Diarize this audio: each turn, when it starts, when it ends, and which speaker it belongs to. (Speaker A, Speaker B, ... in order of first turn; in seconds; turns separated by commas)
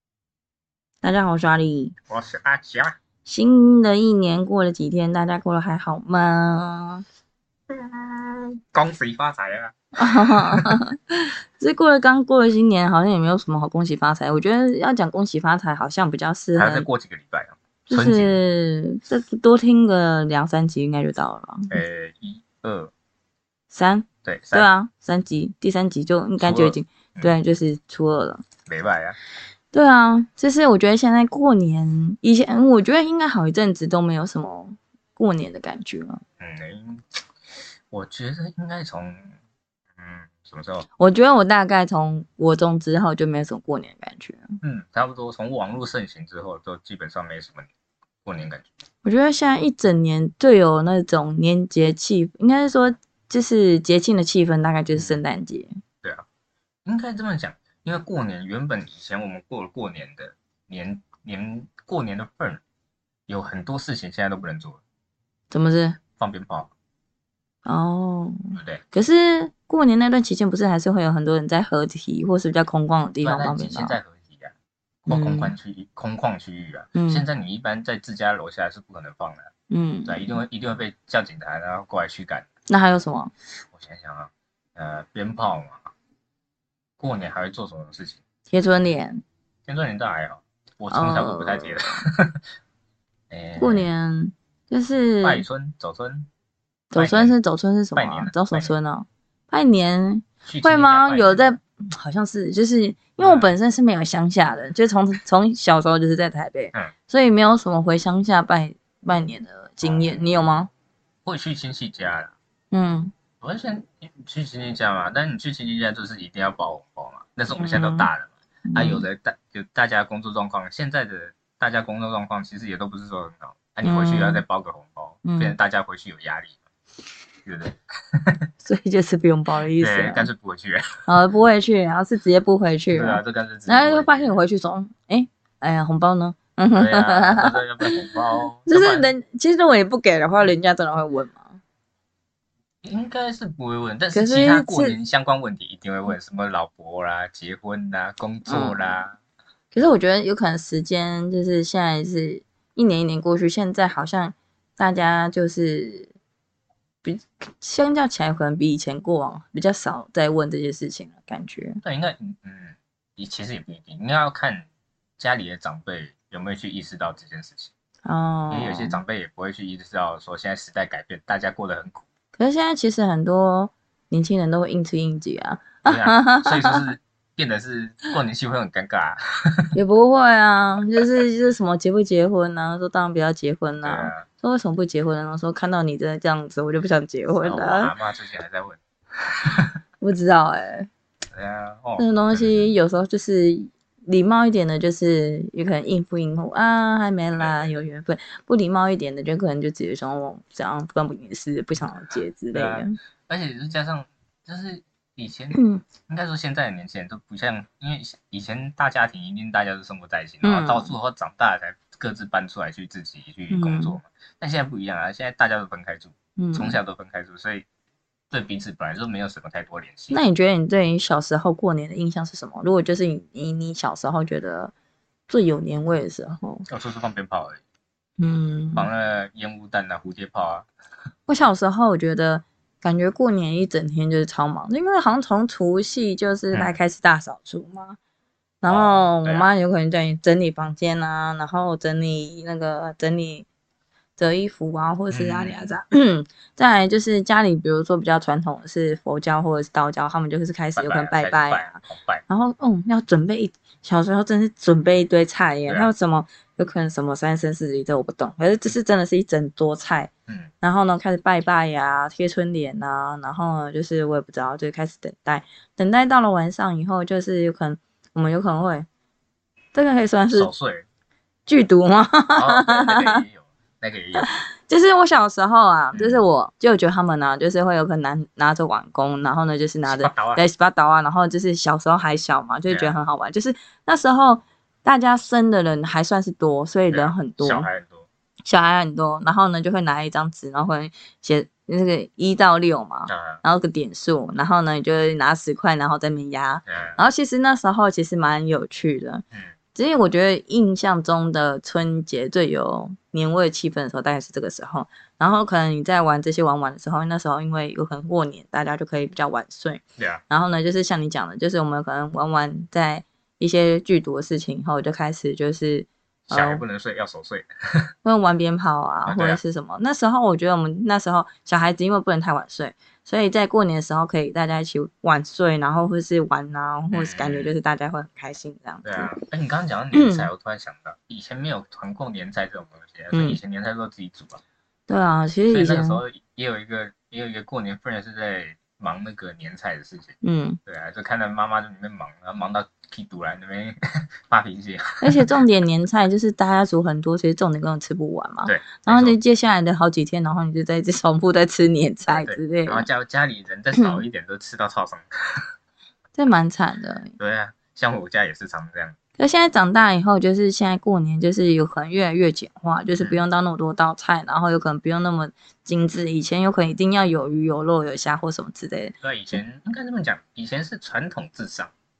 Speaker A: 1.0-1.9, Speaker B: 2.1-3.0, Speaker A: 3.2-7.0, Speaker B: 7.7-10.8, Speaker A: 10.0-16.9, Speaker B: 16.5-18.4, Speaker A: 17.9-21.8, Speaker B: 21.7-22.9, Speaker A: 23.7-28.4, Speaker B: 24.2-24.7, Speaker B: 26.4-27.3, Speaker B: 28.6-29.2, Speaker A: 29.7-36.2, Speaker B: 36.4-37.2, Speaker B: 37.9-39.3, Speaker B: 40.0-40.9, Speaker A: 41.0-44.5, Speaker B: 44.6-47.7, Speaker B: 48.2-48.7, Speaker A: 49.0-55.8, Speaker B: 56.8-62.6, Speaker B: 63.3-64.8, Speaker A: 65.5-66.0, Speaker B: 66.2-66.7, Speaker A: 67.6-74.0, Speaker B: 68.5-68.8, Speaker B: 73.2-74.5, Speaker B: 75.0-79.5, Speaker A: 75.1-75.5, Speaker A: 76.9-77.2, Speaker A: 79.7-80.4, Speaker B: 80.0-82.5, Speaker A: 82.7-83.3, Speaker B: 83.7-85.9, Speaker B: 87.0-88.2, Speaker A: 88.5-89.2, Speaker B: 89.7-92.4, Speaker A: 90.9-92.0, Speaker B: 93.3-93.9, Speaker A: 93.6-95.4, Speaker B: 95.2-96.3, Speaker A: 96.9-110.7, Speaker B: 96.9-97.3, Speaker B: 97.9-98.7, Speaker B: 100.4-101.5, Speaker B: 103.2-103.5, Speaker B: 111.2-112.3, Speaker A: 112.7-113.1, Speaker B: 113.4-126.6, Speaker A: 117.5-118.1, Speaker A: 118.7-119.0, Speaker A: 123.8-124.4, Speaker A: 125.2-125.5, Speaker B: 127.4-128.5, Speaker A: 128.6-130.3, Speaker B: 129.8-131.1, Speaker A: 131.1-138.1, Speaker B: 132.9-134.4, Speaker B: 136.7-139.1, Speaker A: 138.7-141.6, Speaker B: 142.8-149.2, Speaker A: 144.1-144.9, Speaker A: 148.4-148.9, Speaker A: 149.7-156.1, Speaker A: 157.0-161.8, Speaker B: 161.8-164.7, Speaker B: 165.2-167.7, Speaker A: 168.0-169.0, Speaker B: 168.5-172.0, Speaker A: 172.3-176.8, Speaker B: 175.8-179.7, Speaker A: 179.7-187.9, Speaker B: 183.8-184.2, Speaker B: 187.4-188.8, Speaker B: 189.3-189.7, Speaker A: 190.0-190.9, Speaker B: 191.3-192.7, Speaker A: 192.0-203.0, Speaker B: 197.3-197.7, Speaker B: 202.5-217.7, Speaker A: 205.5-205.8, Speaker A: 210.4-210.9, Speaker A: 213.5-214.0, Speaker A: 216.4-216.8, Speaker B: 218.3-220.2, Speaker A: 220.1-224.7, Speaker A: 225.3-226.7, Speaker B: 226.7-227.6, Speaker A: 228.2-228.9, Speaker B: 228.7-230.7, Speaker A: 231.3-238.0, Speaker A: 238.6-243.5, Speaker B: 238.7-239.5, Speaker A: 244.2-268.9, Speaker B: 245.1-245.8, Speaker B: 250.8-252.2, Speaker A: 269.7-270.5, Speaker B: 270.3-270.9, Speaker A: 271.5-273.2, Speaker B: 272.3-274.3, Speaker A: 274.1-287.7, Speaker B: 275.9-276.2, Speaker B: 279.9-280.4, Speaker B: 282.7-282.9, Speaker B: 286.9-288.1, Speaker A: 288.4-316.6, Speaker B: 293.1-293.4, Speaker B: 296.7-297.0, Speaker B: 310.0-310.2, Speaker B: 316.3-317.9, Speaker A: 318.0-329.1, Speaker B: 319.1-319.4, Speaker B: 326.9-327.5, Speaker B: 328.8-334.4, Speaker A: 329.9-330.3, Speaker A: 333.1-333.4, Speaker A: 334.9-336.0, Speaker B: 335.5-345.2, Speaker A: 340.2-340.6, Speaker A: 345.0-352.9, Speaker B: 348.4-349.2, Speaker B: 352.1-355.5, Speaker A: 353.7-354.0, Speaker A: 356.1-357.1, Speaker B: 357.2-358.9, Speaker A: 359.2-368.9, Speaker B: 369.0-371.7